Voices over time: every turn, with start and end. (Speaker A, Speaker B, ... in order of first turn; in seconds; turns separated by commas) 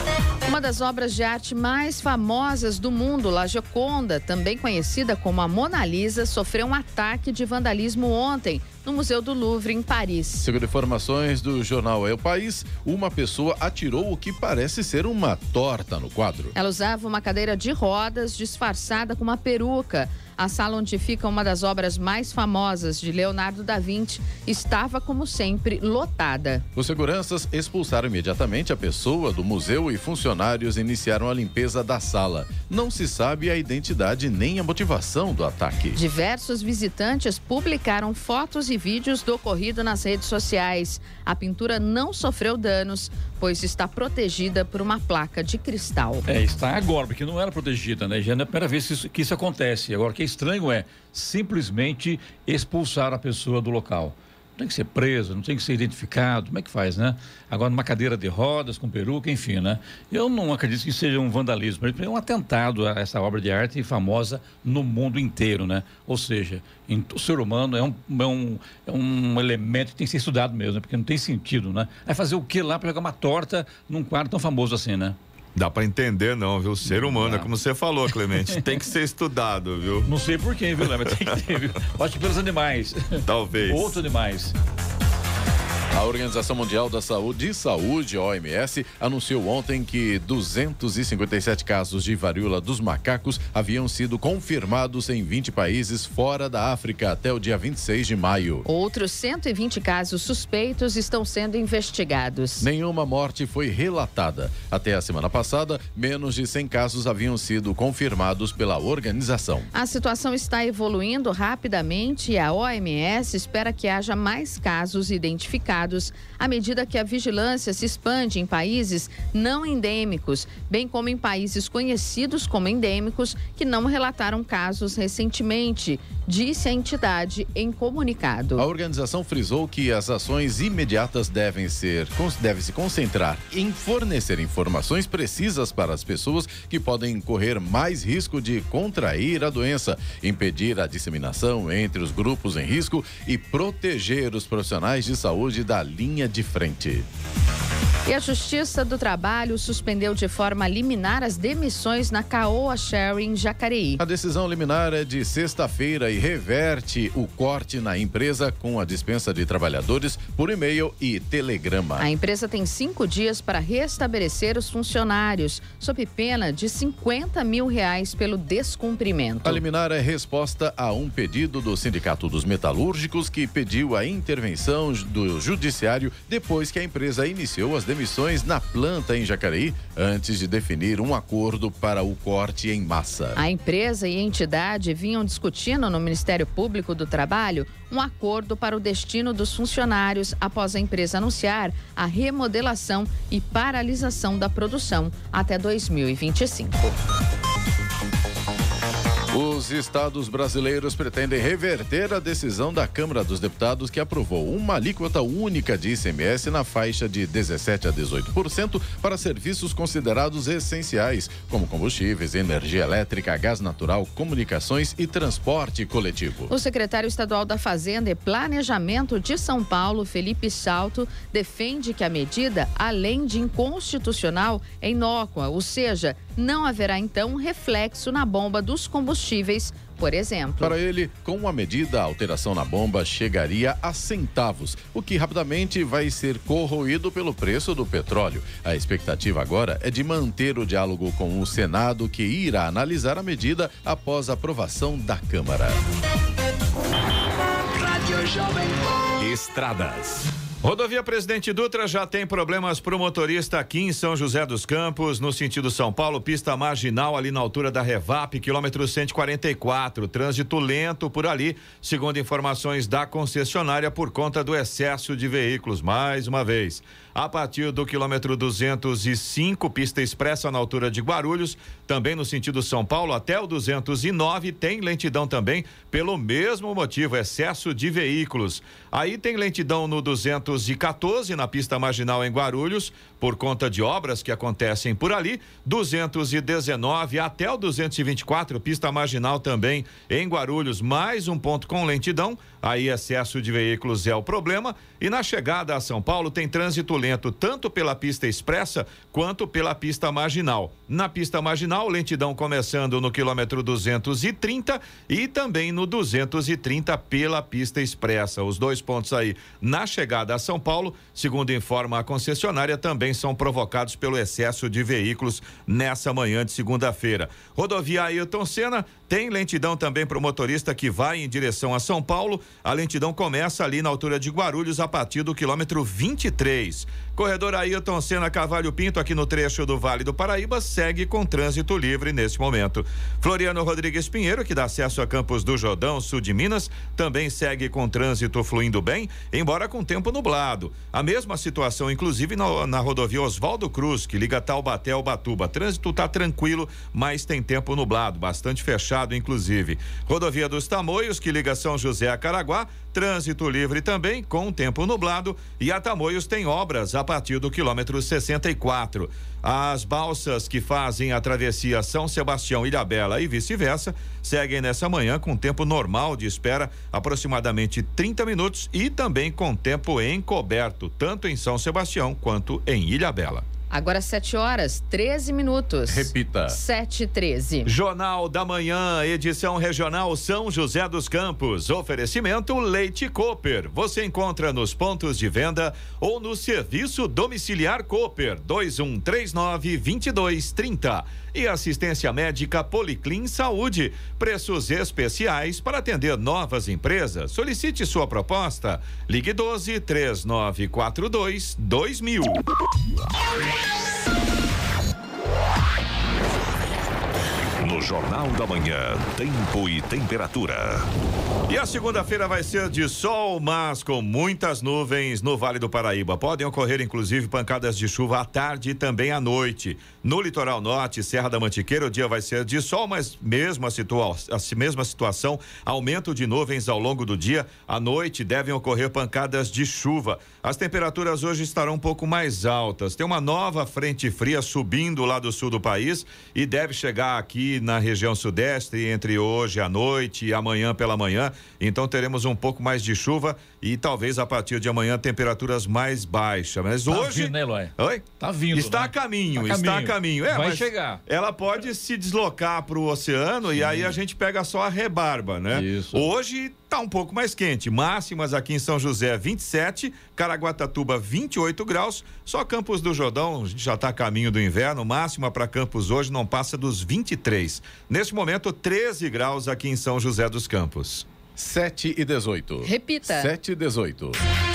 Speaker A: 0.4-10.4, Speaker B: 10.4-16.5, Speaker A: 16.5-26.6, Speaker B: 26.7-36.0, Speaker A: 35.9-46.2, Speaker C: 46.3-75.2, Speaker D: 75.5-80.1, Speaker C: 76.8-77.5, Speaker C: 80.0-84.5, Speaker D: 80.8-81.3, Speaker D: 83.2-84.0, Speaker B: 85.9-98.7, Speaker A: 98.7-102.7, Speaker B: 102.6-109.7, Speaker A: 109.7-128.6, Speaker B: 128.6-147.1, Speaker A: 148.1-154.0, Speaker B: 154.0-162.1, Speaker A: 162.0-169.6, Speaker B: 169.4-183.4, Speaker A: 183.3-196.9, Speaker B: 199.3-216.5, Speaker A: 216.5-230.8, Speaker B: 230.6-245.8, Speaker A: 248.2-248.6, Speaker E: 249.2-250.3, Speaker D: 250.6-373.4, Speaker A: 373.7-377.7, Speaker B: 375.9-376.6, Speaker D: 377.6-402.4, Speaker E: 407.6-410.9, Speaker D: 411.5-471.1, Speaker C: 446.9-451.0, Speaker C: 453.6-454.0, Speaker C: 455.5-456.1, Speaker B: 471.4-474.2, Speaker A: 472.6-473.3